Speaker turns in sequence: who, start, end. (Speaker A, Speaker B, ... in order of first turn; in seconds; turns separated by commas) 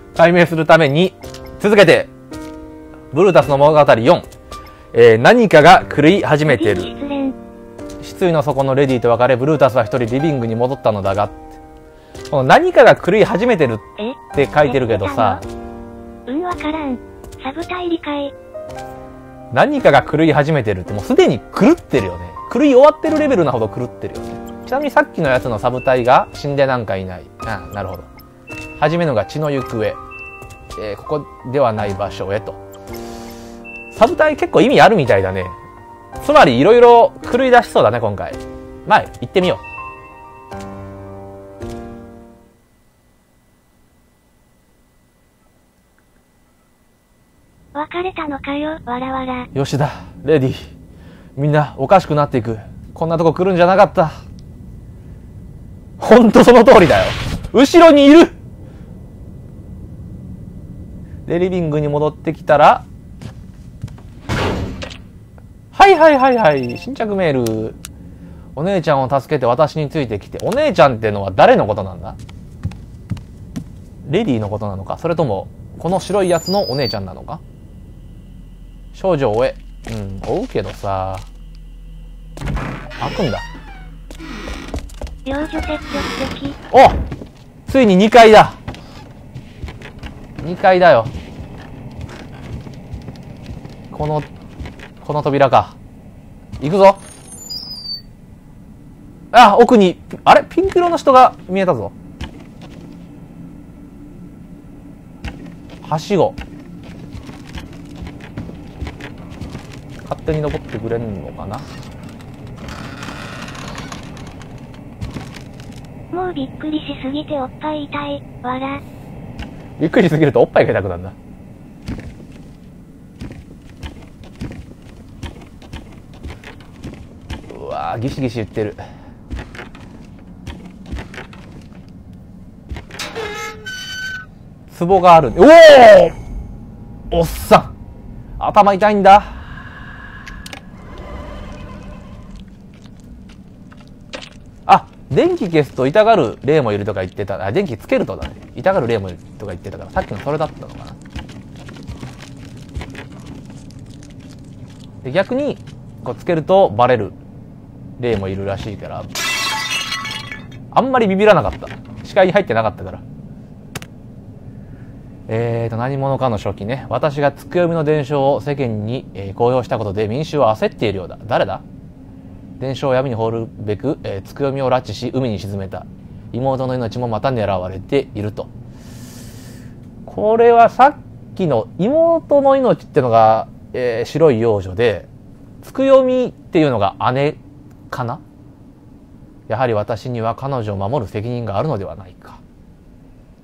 Speaker A: 0.1-2.1, Speaker A: 3.1-4.2, Speaker A: 4.9-6.9, Speaker B: 6.5-7.3, Speaker A: 8.0-11.4, Speaker A: 12.3-15.4, Speaker B: 14.0-15.4, Speaker B: 16.3-18.3, Speaker A: 19.5-28.1, Speaker A: 28.8-30.0, Speaker A: 30.8-32.6, Speaker A: 33.9-35.6, Speaker A: 36.2-39.6, Speaker B: 47.7-49.5, Speaker A: 49.5-50.7, Speaker A: 51.4-54.1, Speaker A: 56.0-58.3, Speaker A: 61.3-62.9, Speaker A: 65.7-67.8, Speaker A: 68.6-72.2, Speaker A: 74.1-77.4, Speaker A: 78.9-81.3, Speaker A: 83.0-83.5, Speaker B: 85.2-86.6, Speaker A: 86.7-87.0, Speaker A: 87.7-88.6, Speaker A: 90.4-91.1, Speaker A: 93.9-94.3, Speaker A: 95.0-95.8, Speaker A: 96.6-97.0, Speaker A: 99.3-101.9, Speaker A: 105.8-106.4, Speaker A: 110.0-111.7, Speaker B: 116.1-118.8, Speaker A: 119.8-121.1, Speaker A: 127.5-128.8, Speaker A: 134.7-136.1, Speaker A: 137.1-137.7, Speaker A: 138.4-139.3, Speaker A: 144.7-151.0, Speaker A: 155.0-157.2, Speaker A: 158.0-159.1, Speaker A: 160.7-163.0, Speaker A: 165.3-171.6, Speaker A: 172.6-178.5, Speaker A: 180.1-185.1, Speaker A: 185.6-187.4, Speaker A: 187.9-188.2, Speaker A: 189.5-192.4